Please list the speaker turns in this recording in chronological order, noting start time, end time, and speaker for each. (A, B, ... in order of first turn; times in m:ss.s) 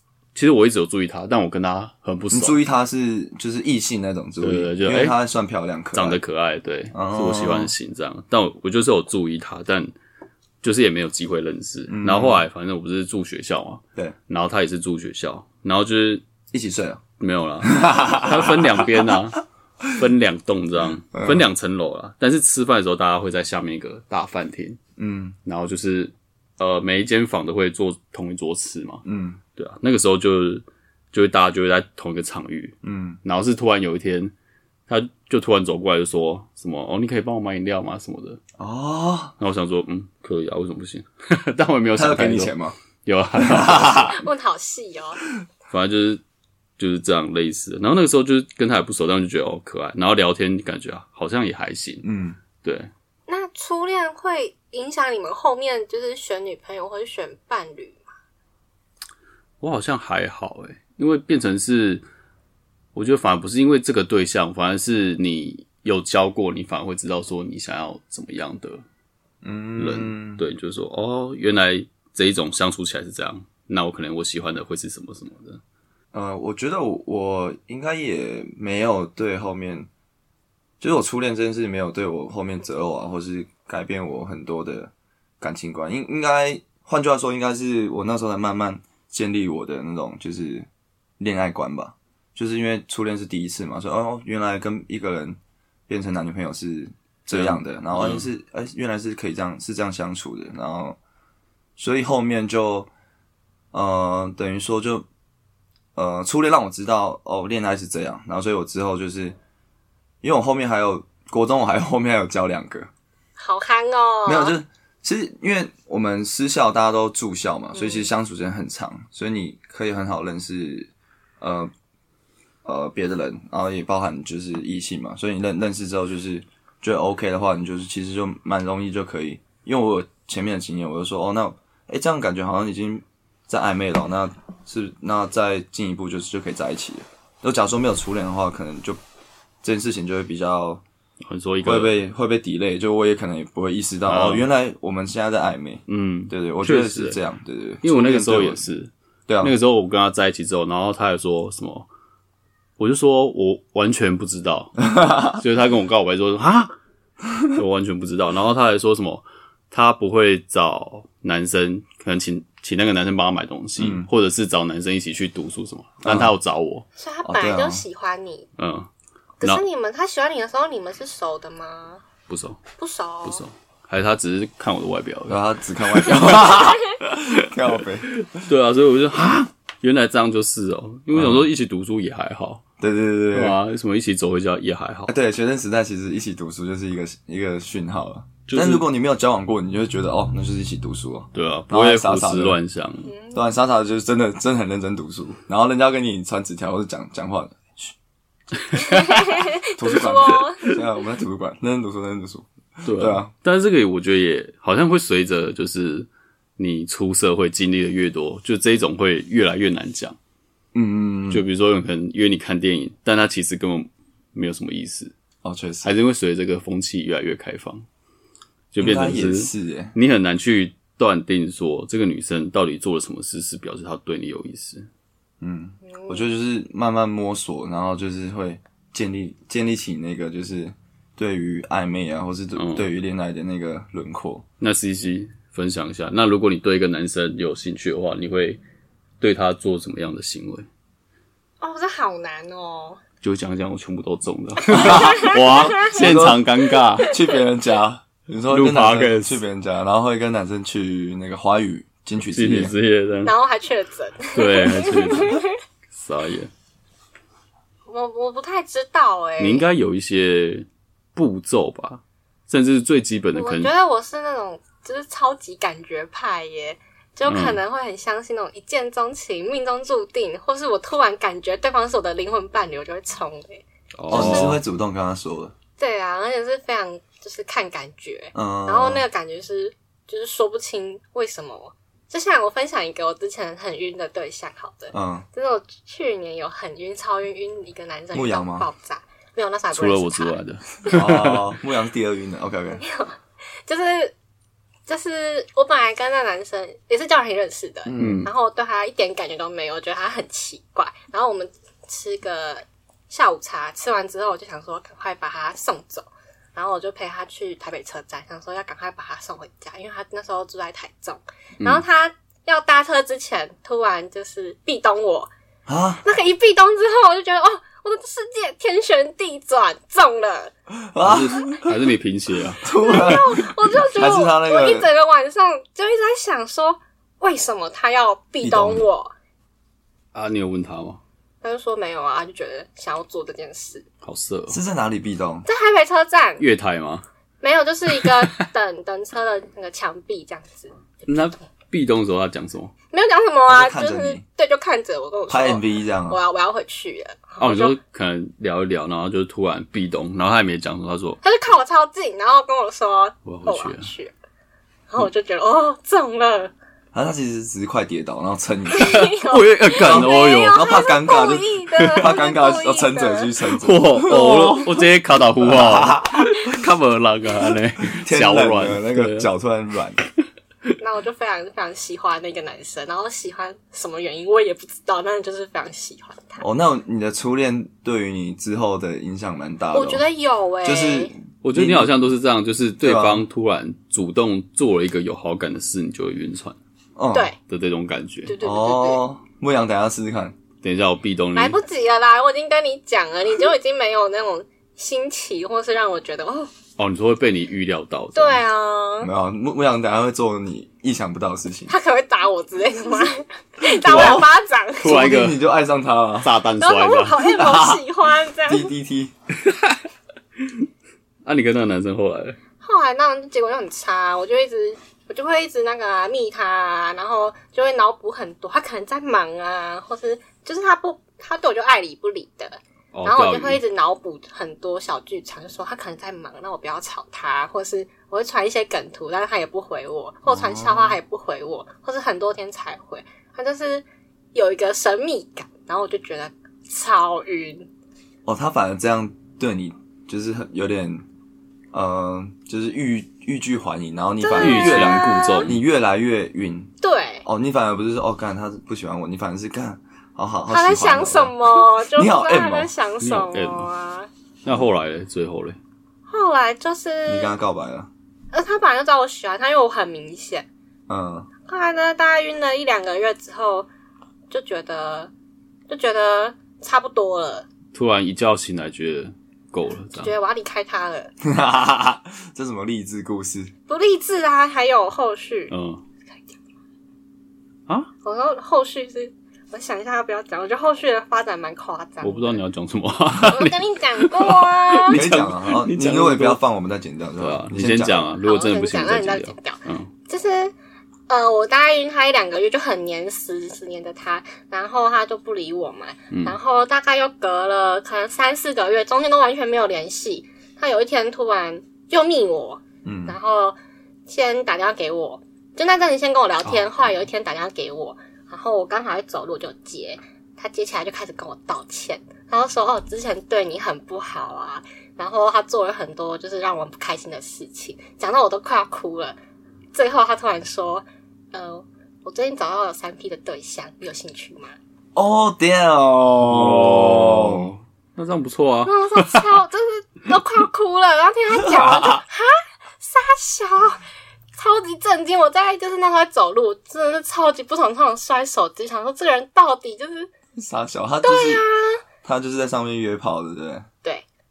0:00.3-0:02.6 A
0:02.3-0:06.2 B
0:04.4-0:05.2 A
0:05.9-0:09.9 A
0:06.9-0:07.7 B
0:10.6-0:16.2 A
0:11.9-0:12.4 B
0:16.5-0:17.0 B
0:17.2-0:24.8 A
0:17.6-0:19.2 B
0:21.1-0:21.4 B
0:25.0-0:25.4 B
0:25.4-0:29.0 A
0:29.0-0:29.4 B
0:29.6-0:34.3 A
0:32.8-0:33.2 B
0:34.9-0:38.4 A
0:38.6-0:39.3 B
0:39.4-0:42.5 A
0:41.9-0:42.8 B
0:43.0-0:44.2 A
0:43.3-0:44.1 B
0:44.0-0:45.2 C
0:45.7-0:46.2 A
0:46.8-0:52.0 A
0:52.0-0:52.4 B
0:52.6-0:52.9 A
0:53.3-0:58.1 C
0:59.6-1:02.0 A
1:02.9-1:08.8 A
1:09.4-1:10.4 B
1:09.8-1:15.6 A
1:16.1-1:19.9 B
1:20.8-1:30.7 B
1:31.2-1:35.4 B
1:35.9-1:41.0 B
1:37.3-1:38.3 A
1:41.8-1:42.9 B
1:43.7-1:45.0 B
1:45.9-1:49.4 B
1:50.2-1:52.9 B
1:53.4-1:54.6 C
1:54.2-2:01.7 B
1:57.7-1:58.1 C
2:02.6-2:19.0 B
2:19.6-2:20.8 B
2:21.2-2:22.0 A
2:21.6-2:28.6 B
2:24.1-2:24.5 A
2:25.9-2:27.2 A
2:27.8-2:31.9 A
2:29.3-2:29.5 B
2:32.8-2:36.7 A
2:34.9-2:35.4 B
2:37.5-2:46.8 A
2:43.8-2:44.1 B
2:46.0-2:46.3 B
2:47.0-2:48.5 C
2:47.2-2:47.8 B
2:48.6-2:48.9 A
2:49.4-2:52.0 C
2:52.3-2:52.6 A
2:52.8-2:53.4 C
2:53.2-2:57.5 A
2:55.3-2:58.1 B
2:58.0-3:02.6 A
3:01.1-3:01.5 B
3:02.8-3:03.6 B
3:03.3-3:05.1 A
3:05.1-3:12.6 B
3:08.5-3:08.8 A
3:11.3-3:13.1 A
3:13.0-3:13.4 C
3:13.3-3:17.9 B
3:18.7-3:19.1 A
3:18.8-3:20.7 C
3:19.8-3:23.3 B
3:22.8-3:30.2 A
3:30.7-3:31.4 B
3:31.3-3:35.1 A
3:35.4-3:35.9 B
3:35.8-3:37.8 A
3:38.7-3:44.9 A
3:38.8-3:39.9 B
3:45.4-3:54.4 B
3:45.8-3:46.2 C
3:52.6-3:52.9 A
3:54.6-3:58.6 A
3:59.2-4:00.7 A
4:01.6-4:03.0 C
4:03.2-4:07.2 A
4:04.7-4:06.4 B
4:04.8-4:06.0 C
4:07.1-4:12.7 B
4:08.5-4:09.4 A
4:12.2-4:13.3 A
4:13.2-4:15.5 C
4:14.3-4:15.4 A
4:15.9-4:16.5 A
4:17.9-4:19.6 C
4:19.4-4:23.7 A
4:23.3-4:34.5 C
4:27.3-4:27.6 A
4:34.0-4:34.6 A
4:34.1-4:35.5 B
4:35.8-4:51.0 C
4:38.3-4:39.0 B
4:44.9-4:45.2 B
4:48.1-4:48.7 B
4:49.7-4:51.5 A
4:50.9-4:52.8 B
4:52.8-4:54.1 C
4:54.9-5:15.3 C
4:57.8-4:58.3 B
4:58.0-4:58.3 A
5:15.7-5:16.0 B
5:16.0-5:20.5 C
5:20.7-5:21.7 B
5:21.0-5:23.2 A
5:22.6-5:24.9 B
5:22.7-5:29.1 C
5:28.4-5:28.8 B
5:30.1-5:31.0 A
5:31.4-5:33.8 C
5:34.0-5:34.6 A
5:34.5-5:35.5 B
5:35.4-5:36.4 C
5:36.4-5:37.0 A
5:37.4-5:40.8 C
5:38.0-5:38.4 A
5:41.1-5:42.7 A
5:42.9-5:47.8 C
5:43.5-5:44.2 B
5:45.3-5:46.2 B
5:47.4-5:51.2 A
5:51.2-5:54.1 C
5:53.2-5:53.9 A
5:54.9-5:56.5 C
5:56.9-5:59.1 B
5:58.7-6:03.3 C
5:58.9-6:00.7 A
5:59.8-6:04.8 B
6:01.8-6:02.0 A
6:03.6-6:09.3 A
6:05.4-6:06.6 B
6:08.0-6:10.0 B
6:10.8-6:16.4 C
6:16.4-6:20.0 B
6:19.7-6:21.1 C
6:20.6-6:21.9 B
6:21.4-6:26.6 A
6:22.8-6:23.2 B
6:27.0-6:27.3 B
6:27.5-6:28.3 A
6:28.2-6:29.0 C
6:28.4-6:30.4 B
6:30.6-6:31.6 A
6:31.3-6:36.5 C
6:36.8-6:38.4 A
6:38.1-6:39.1 C
6:39.0-6:41.7 B
6:41.7-6:45.0 C
6:43.9-6:44.2 B
6:43.9-6:44.3 A
6:44.8-6:45.4 A
6:44.8-6:46.3 B
6:46.2-6:47.3 A
6:46.6-6:48.7 C
6:47.3-6:47.8 B
6:48.5-6:49.1 B
6:49.4-6:49.8 A
6:51.2-6:52.4 A
6:52.6-7:17.7 C
7:02.9-7:03.6 A
7:10.3-7:11.0 B
7:18.2-7:21.0 B
7:21.7-7:26.7 B
7:24.2-7:25.5 C
7:24.4-7:25.6 A
7:26.8-7:27.2 C
7:27.2-7:32.7 B
7:30.5-7:34.1 C
7:33.0-7:33.7 A
7:34.4-7:35.6 A
7:36.1-7:37.4 C
7:37.0-7:37.9 B
7:38.3-7:40.5 C
7:40.9-7:41.3 B
7:41.4-7:43.7 C
7:44.3-7:45.1 C
7:45.7-7:47.5 C
7:47.7-7:50.1 A
7:50.0-7:51.1 C
7:51.2-7:53.5 B
7:53.7-7:55.5 C
7:55.5-7:55.8 A
7:58.0-8:02.4 C
8:02.0-8:06.4 A
8:03.2-8:05.0 C
8:04.9-8:08.1 B
8:07.2-8:09.9 A
8:08.2-8:10.5 C
8:11.1-8:39.2 C
8:16.1-8:16.4 A
8:22.8-8:23.2 B
8:39.7-8:44.5 C
8:44.9-8:47.5 B
8:46.2-8:49.4 A
8:48.6-8:53.8 C
8:51.4-8:52.0 B
8:54.4-9:00.1 C
9:00.3-9:01.4 B
9:01.0-9:01.8 C
9:02.0-9:03.7 B